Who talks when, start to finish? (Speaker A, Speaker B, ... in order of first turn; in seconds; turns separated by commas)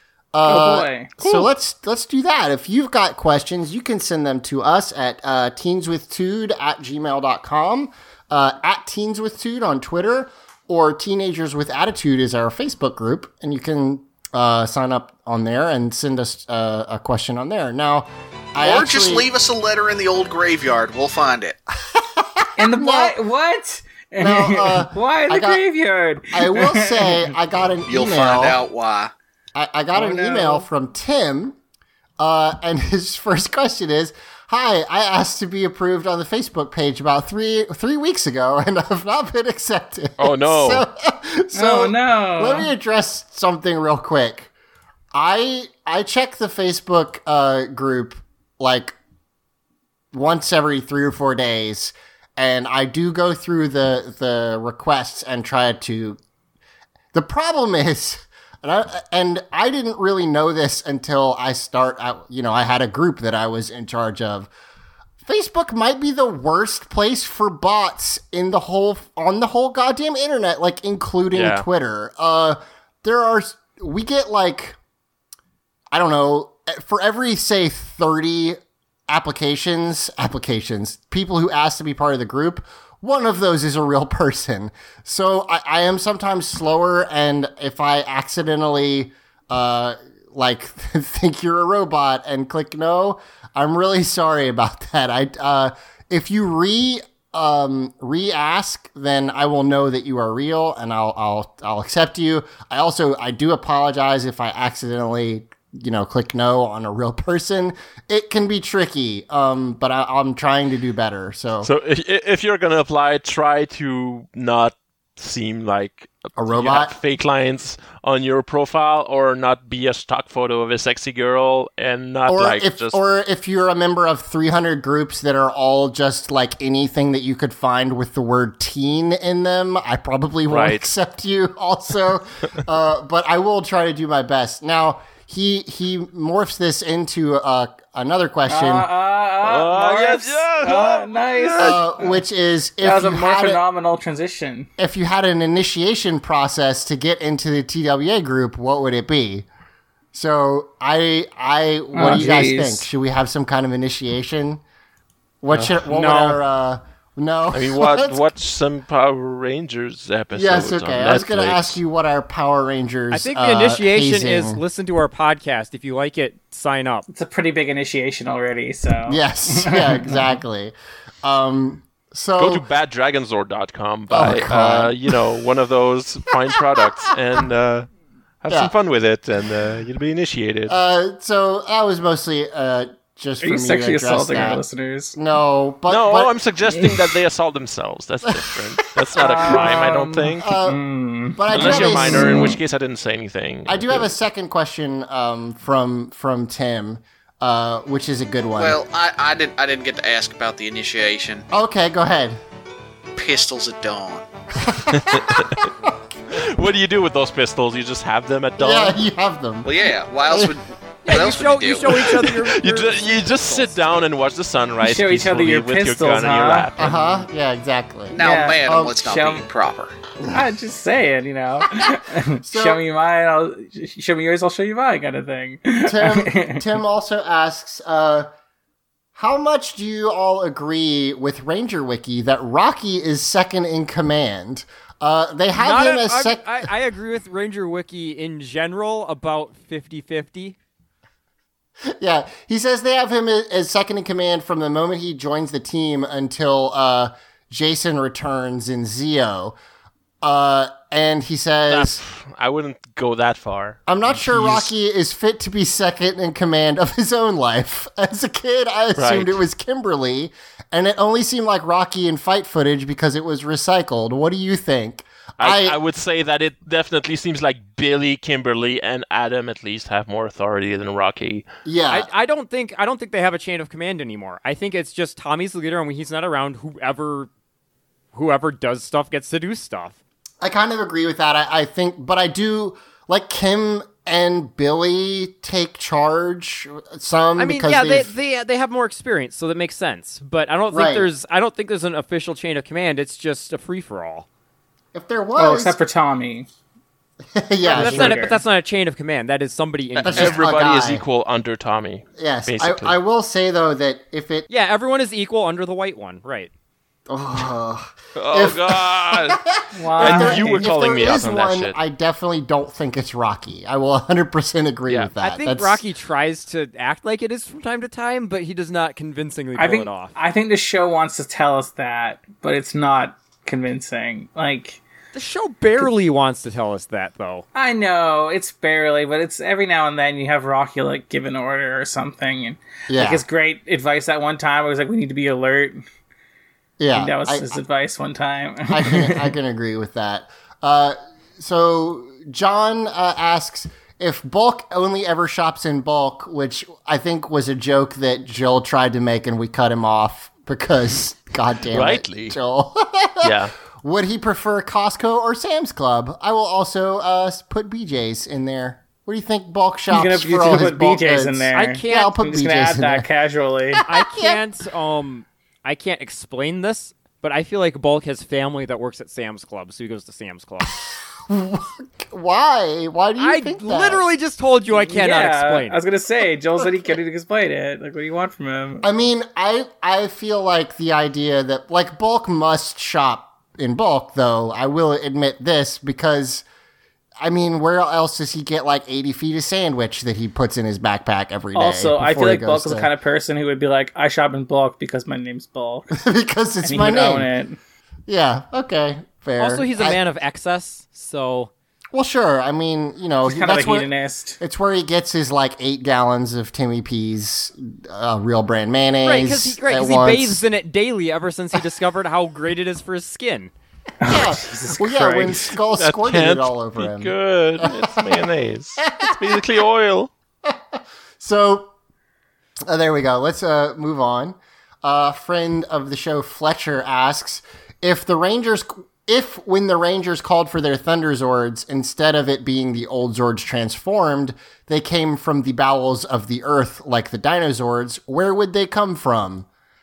Speaker A: 0.3-19.3, Speaker B: 0.5-1.5, Speaker C: 18.6-21.6, Speaker A: 21.9-23.2, Speaker B: 22.6-27.2, Speaker A: 24.2-25.6, Speaker A: 26.3-28.6, Speaker C: 27.9-29.1, Speaker A: 29.6-31.6, Speaker B: 29.9-30.6, Speaker A: 32.2-44.5, Speaker D: 40.2-40.9, Speaker B: 41.5-42.7, Speaker A: 45.1-49.0, Speaker A: 50.1-56.2, Speaker A: 57.1-64.5, Speaker A: 65.2-74.8, Speaker D: 71.3-71.7, Speaker A: 75.9-111.7, Speaker D: 111.6-123.0, Speaker A: 116.4-117.0, Speaker A: 122.3-138.9, Speaker D: 130.5-130.9, Speaker B: 138.5-142.1, Speaker D: 139.4-141.8, Speaker A: 141.6-143.6, Speaker B: 142.8-144.7, Speaker A: 144.8-149.5, Speaker A: 150.1-154.6, Speaker B: 151.9-152.9, Speaker A: 155.4-158.2, Speaker D: 155.5-155.8, Speaker E: 155.9-156.4, Speaker D: 157.5-161.8, Speaker A: 160.3-164.6, Speaker E: 163.1-167.1, Speaker B: 167.1-170.3, Speaker A: 169.1-172.7, Speaker D: 172.4-177.9, Speaker A: 174.1-175.2, Speaker D: 178.4-180.8, Speaker A: 180.7-184.6, Speaker B: 183.4-185.2, Speaker A: 185.2-186.3, Speaker D: 185.9-190.5, Speaker A: 188.3-189.7, Speaker B: 189.2-192.6, Speaker A: 190.4-190.8, Speaker A: 191.3-192.5, Speaker D: 191.5-194.1, Speaker A: 193.7-198.8, Speaker C: 198.6-201.5, Speaker A: 201.5-202.4, Speaker C: 203.2-204.2, Speaker A: 204.6-206.0, Speaker D: 204.9-205.6, Speaker D: 206.3-209.0, Speaker A: 208.6-209.8, Speaker C: 209.7-212.0, Speaker A: 210.3-210.6, Speaker E: 211.1-213.8, Speaker D: 212.2-217.2, Speaker B: 214.8-216.7, Speaker A: 216.8-219.0, Speaker C: 218.1-219.9, Speaker B: 218.2-219.5, Speaker B: 220.2-226.7, Speaker A: 222.4-222.8, Speaker A: 225.8-228.3, Speaker A: 229.2-236.7, Speaker E: 235.5-240.6, Speaker A: 241.9-249.6, Speaker A: 250.2-252.0, Speaker D: 251.7-254.7, Speaker A: 253.9-265.8, Speaker D: 259.0-259.4, Speaker D: 265.4-271.5, Speaker A: 271.6-272.1, Speaker E: 271.9-277.3, Speaker E: 278.1-280.0, Speaker A: 280.4-288.1, Speaker E: 287.4-294.3, Speaker A: 290.7-291.1, Speaker A: 294.9-295.8, Speaker B: 295.4-296.5, Speaker A: 297.3-298.3, Speaker B: 297.6-298.4, Speaker E: 297.7-300.5, Speaker D: 300.0-303.0, Speaker A: 300.0-301.0, Speaker A: 302.2-304.5, Speaker E: 304.5-306.5, Speaker A: 307.1-315.8, Speaker D: 308.2-309.4, Speaker B: 309.8-310.7, Speaker D: 310.0-311.8, Speaker E: 315.2-320.1, Speaker B: 319.6-324.8, Speaker E: 325.1-327.4, Speaker B: 327.5-335.8, Speaker A: 332.9-333.2, Speaker A: 336.8-337.6, Speaker B: 336.9-339.3, Speaker A: 338.7-363.1, Speaker D: 351.7-352.4, Speaker D: 353.2-353.5, Speaker B: 359.9-363.8, Speaker E: 361.5-362.1, Speaker A: 363.8-364.4, Speaker E: 363.9-370.7, Speaker A: 371.3-374.1, Speaker E: 373.2-375.8, Speaker B: 374.7-378.9, Speaker A: 378.8-386.4, Speaker A: 387.2-392.9, Speaker B: 391.6-395.9, Speaker A: 395.9-397.3, Speaker B: 396.6-397.6, Speaker A: 398.1-400.0, Speaker E: 399.4-401.5, Speaker A: 401.9-410.4, Speaker B: 403.2-404.4, Speaker E: 409.0-413.5, Speaker B: 414.0-415.5, Speaker A: 414.1-418.2, Speaker D: 415.7-420.1, Speaker A: 418.9-419.4, Speaker A: 420.4-421.7, Speaker A: 422.7-439.5